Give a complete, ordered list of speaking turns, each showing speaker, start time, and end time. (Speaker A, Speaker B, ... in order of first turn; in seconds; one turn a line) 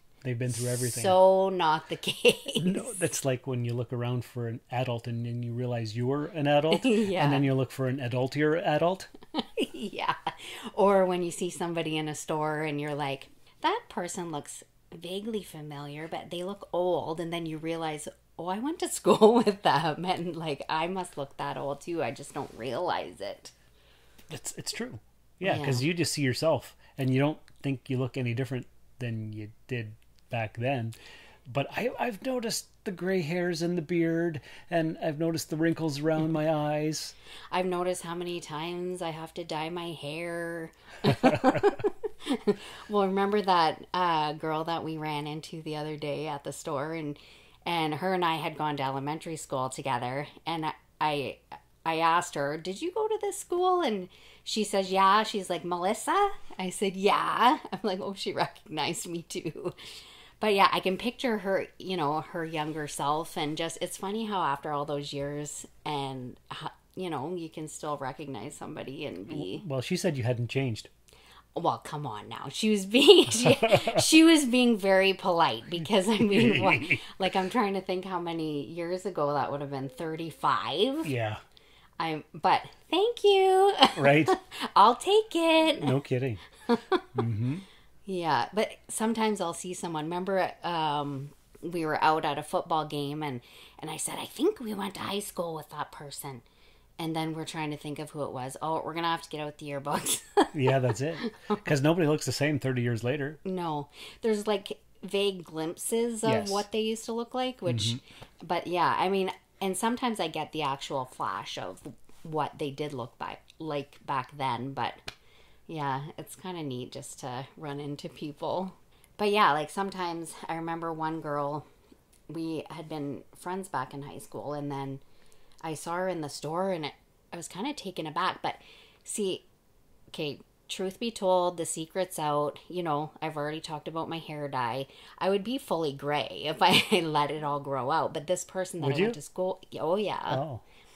Speaker A: 0.2-1.2
Speaker B: 0.8-2.9
Speaker A: 2.6-9.1
Speaker B: 6.7-7.5
Speaker B: 9.4-23.5
Speaker A: 24.3-37.1
Speaker B: 25.4-25.8
Speaker B: 37.5-59.8
Speaker B: 60.4-69.6
Speaker A: 69.3-70.9
Speaker B: 71.5-81.1
Speaker A: 73.4-74.0
Speaker A: 76.3-77.0
Speaker A: 81.0-81.4
Speaker B: 82.0-85.9
Speaker A: 84.0-84.3
Speaker A: 85.8-86.4
Speaker B: 86.7-87.0
Speaker A: 87.1-87.6
Speaker B: 88.0-96.4
Speaker B: 97.0-100.6
Speaker A: 100.5-103.4
Speaker B: 103.4-115.0
Speaker A: 106.2-106.6
Speaker A: 107.7-108.0
Speaker B: 115.7-121.7
Speaker B: 122.3-125.0
Speaker B: 125.6-129.4
Speaker B: 130.1-140.4
Speaker A: 138.8-139.2
Speaker A: 140.3-140.6